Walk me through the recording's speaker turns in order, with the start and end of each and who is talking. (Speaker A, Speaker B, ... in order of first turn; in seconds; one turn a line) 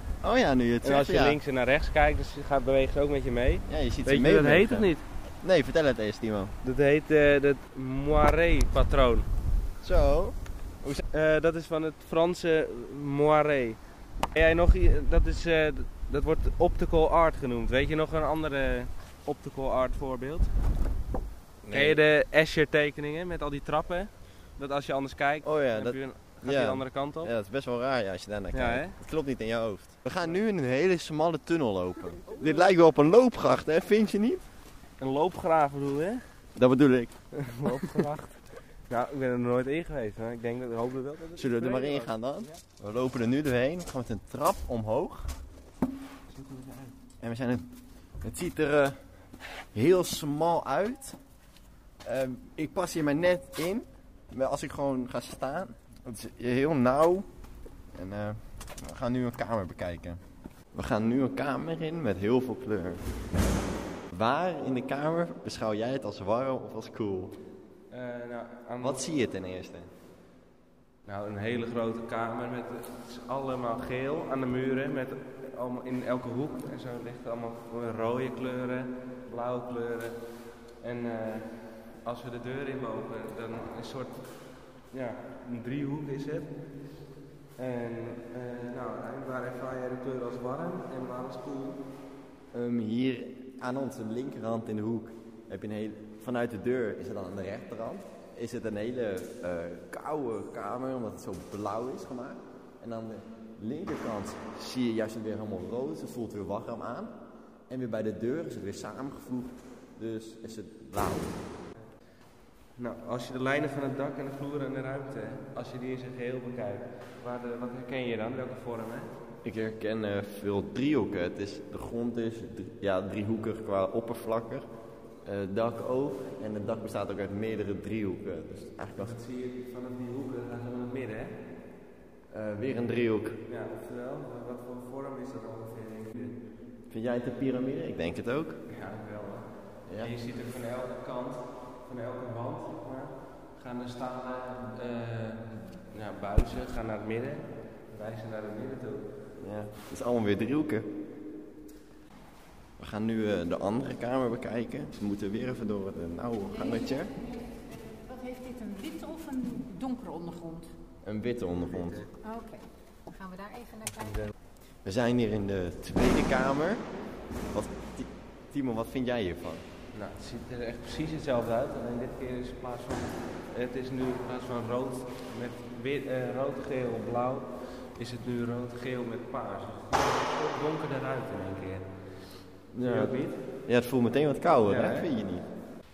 Speaker A: 0.2-1.4
Speaker B: 0.8-5.0
Speaker A: 3.7-4.9
Speaker A: 5.4-6.5
Speaker B: 6.6-9.3
Speaker A: 9.8-11.0
Speaker B: 11.1-13.8
Speaker B: 14.3-20.5
Speaker A: 21.6-22.0
Speaker B: 21.7-27.3
Speaker A: 25.4-34.4
Speaker B: 28.5-29.0
Speaker B: 35.0-36.2
Speaker A: 36.6-37.1
Speaker B: 37.3-42.6
Speaker A: 37.6-38.1
Speaker A: 41.4-45.3
Speaker B: 46.3-46.9
Speaker A: 47.2-47.7
Speaker A: 48.2-49.0
Speaker A: 49.7-51.2
Speaker A: 52.0-57.3
Speaker A: 58.0-60.2
Speaker A: 60.7-63.0
Speaker A: 64.1-67.4
Speaker B: 67.9-69.1
Speaker A: 68.8-69.9
Speaker B: 71.1-80.2
Speaker B: 80.8-84.3
Speaker B: 84.9-86.5
Speaker B: 87.6-91.8
Speaker A: 92.5-107.2
Speaker A: 107.7-111.4
Speaker B: 112.8-119.2
Speaker A: 119.4-124.7
Speaker A: 125.2-129.2
Speaker B: 129.0-131.4
Speaker A: 132.3-133.4
Speaker B: 133.5-136.4
Speaker A: 136.9-138.6
Speaker B: 138.7-139.5
Speaker A: 139.9-140.1
Speaker B: 140.0-149.1
Speaker A: 149.4-150.9
Speaker A: 152.8-157.1
Speaker C: 157.9-160.7
Speaker A: 161.0-162.0
Speaker B: 161.7-162.1
Speaker C: 162.2-164.3
Speaker A: 164.8-166.8
Speaker A: 167.5-169.6
Speaker B: 169.9-181.9
Speaker A: 182.7-185.5
Speaker B: 182.8-183.4
Speaker B: 184.7-185.1